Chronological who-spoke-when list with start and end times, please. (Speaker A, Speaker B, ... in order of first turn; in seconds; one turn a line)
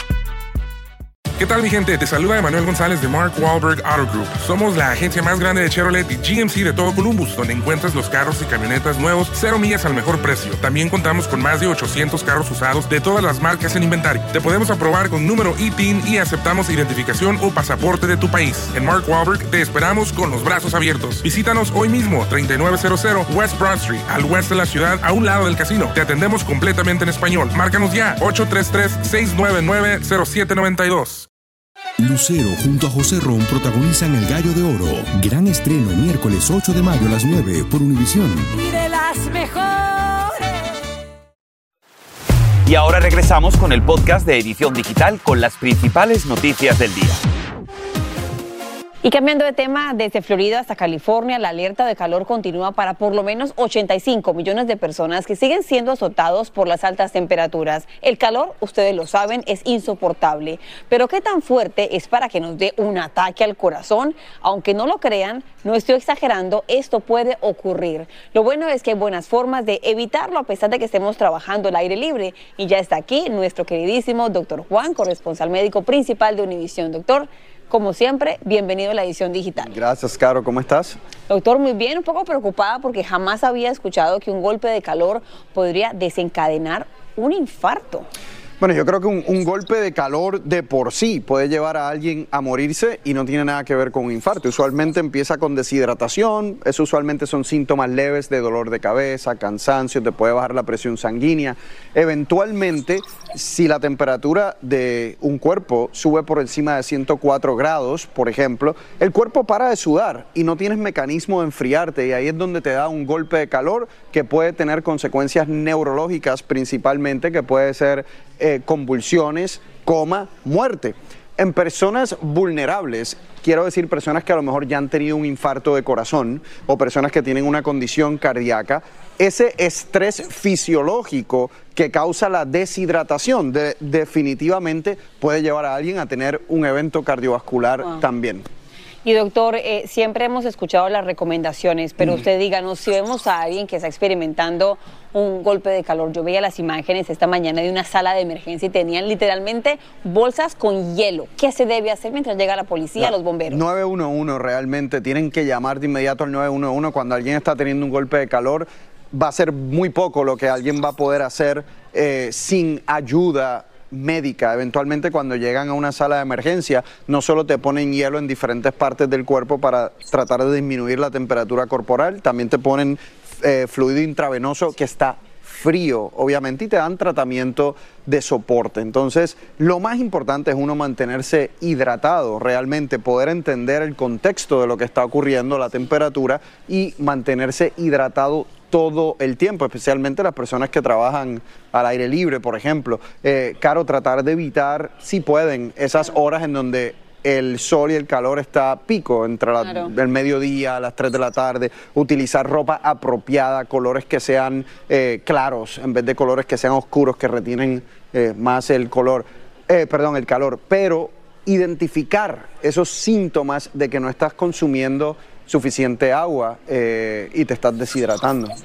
Speaker A: 1.4-31.3
Speaker B: 32.0-38.5
Speaker C: 42.6-47.2
Speaker D: 49.0-79.7
Speaker E: 79.6-81.0
Speaker D: 81.3-88.1
Speaker E: 88.6-138.4
Speaker D: 139.0-153.6
Speaker E: 153.0-218.5